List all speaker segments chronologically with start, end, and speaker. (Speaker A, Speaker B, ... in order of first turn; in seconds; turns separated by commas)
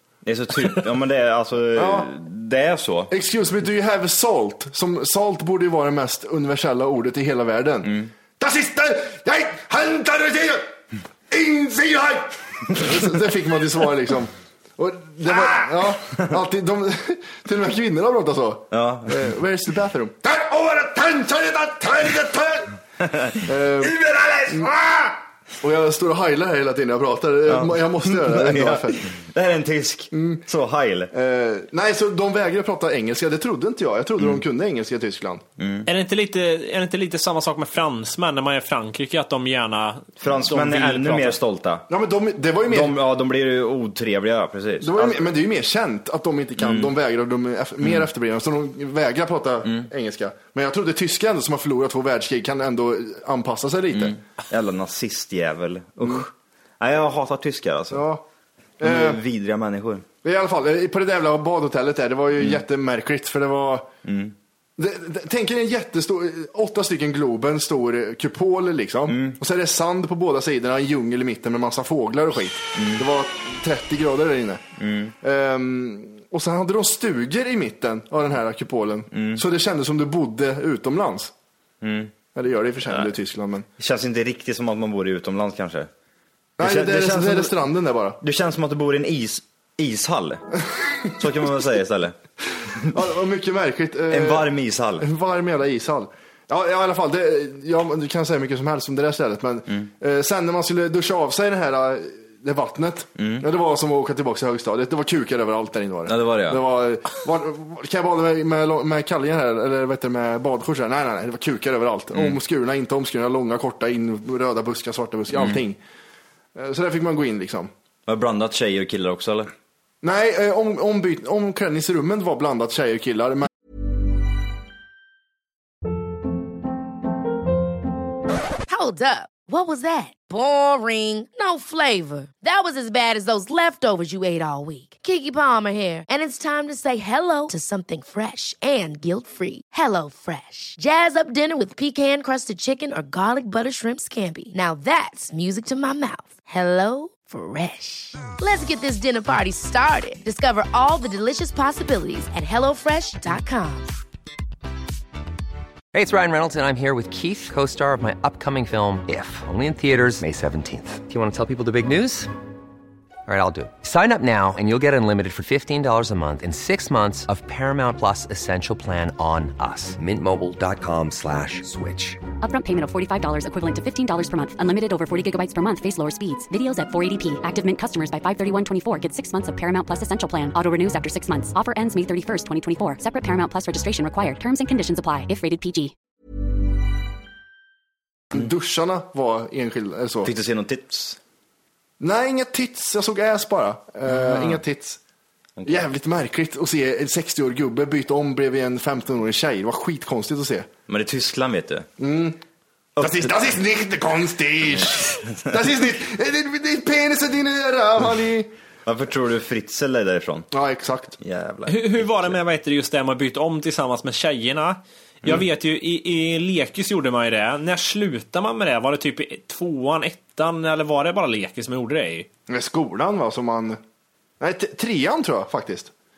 Speaker A: 0.2-3.1, Speaker B: 1.8-2.1, Speaker B: 3.1-10.7, Speaker A: 7.8-8.1, Speaker B: 11.3-22.7, Speaker A: 18.7-19.3, Speaker A: 23.0-24.7, Speaker B: 23.4-29.1, Speaker A: 27.5-31.1, Speaker B: 30.1-30.4, Speaker B: 31.1-35.4, Speaker A: 34.2-34.4, Speaker A: 35.6-35.9, Speaker C: 35.9-41.4, Speaker A: 40.2-41.9, Speaker B: 41.9-43.0, Speaker A: 42.7-45.3, Speaker B: 44.8-54.2, Speaker A: 46.6-46.9, Speaker A: 47.8-48.1, Speaker A: 53.9-58.1, Speaker B: 57.9-58.2, Speaker B: 58.8-59.2, Speaker A: 58.8-60.0, Speaker B: 60.2-63.9, Speaker A: 62.4-62.6, Speaker A: 64.0-64.3, Speaker B: 64.8-74.6, Speaker A: 69.1-69.4, Speaker A: 72.8-73.0, Speaker A: 74.8-75.1, Speaker B: 75.2-81.3, Speaker A: 79.1-79.4, Speaker A: 81.8-82.1, Speaker B: 82.3-83.7, Speaker A: 82.8-83.1, Speaker A: 83.8-85.9, Speaker B: 86.6-88.2, Speaker A: 86.6-87.6, Speaker A: 88.2-90.4, Speaker B: 90.8-91.1, Speaker A: 91.2-92.2, Speaker B: 92.9-115.8, Speaker A: 94.1-95.1, Speaker A: 103.2-103.5, Speaker A: 106.1-106.6, Speaker A: 112.1-112.4, Speaker A: 115.3-115.6, Speaker B: 116.5-117.7, Speaker A: 118.1-119.5, Speaker B: 120.0-123.5, Speaker D: 128.7-153.9, Speaker E: 155.9-162.3, Speaker E: 163.3-172.2, Speaker F: 172.4-185.9, Speaker B: 188.3-190.3, Speaker A: 190.2-191.2, Speaker B: 192.0-195.0, Speaker A: 194.1-194.6, Speaker A: 195.6-195.9, Speaker B: 195.7-200.7, Speaker A: 200.9-201.9, Speaker B: 202.0-202.4, Speaker A: 203.0-203.3, Speaker B: 203.0-208.5, Speaker A: 208.9-210.5, Speaker B: 210.5-211.2, Speaker A: 211.2-212.4, Speaker C: 211.7-222.3, Speaker B: 222.5-223.8, Speaker B: 224.4-225.9